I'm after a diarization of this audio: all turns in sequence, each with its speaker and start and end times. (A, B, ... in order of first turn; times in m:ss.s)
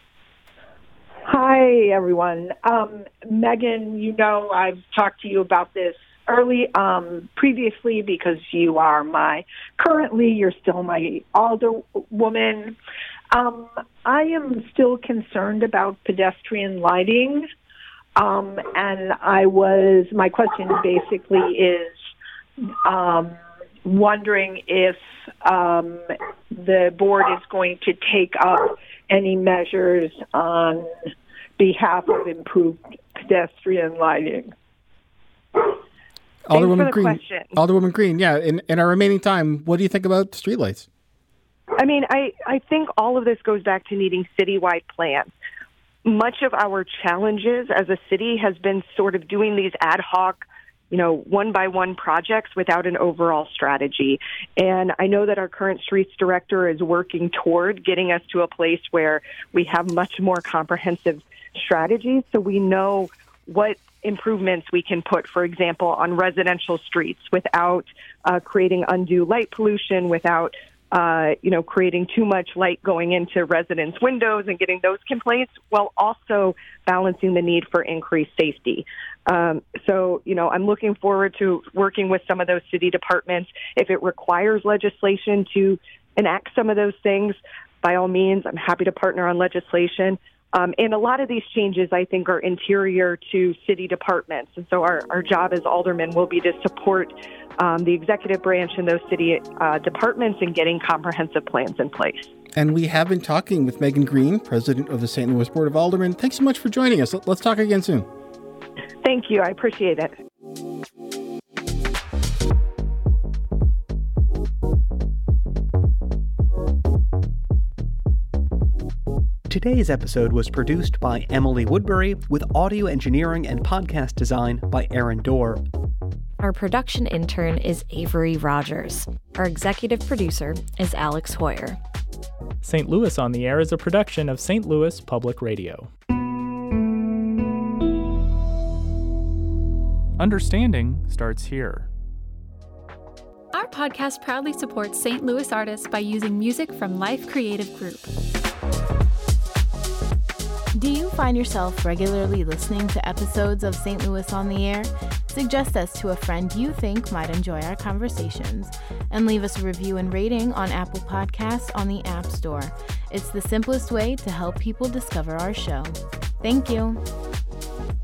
0:01.2-0:12.8 A
0:13.3-0:17.4 A
0:18.2-0:21.9 A
0:22.7-0:30.9 A
0:31.6-0:34.5 A
0:36.4-0:40.9 B
0:36.5-0:37.6 C
0:41.8-0:45.3 C
0:46.0-1:42.3 C
1:42.5-1:48.1 B
1:49.0-1:50.1 C
1:59.5-2:05.6 D
2:06.4-2:11.8 E
2:12.6-2:15.9 F
2:20.2-2:21.9 F
2:23.5-2:28.1 G
2:30.7-2:47.0 H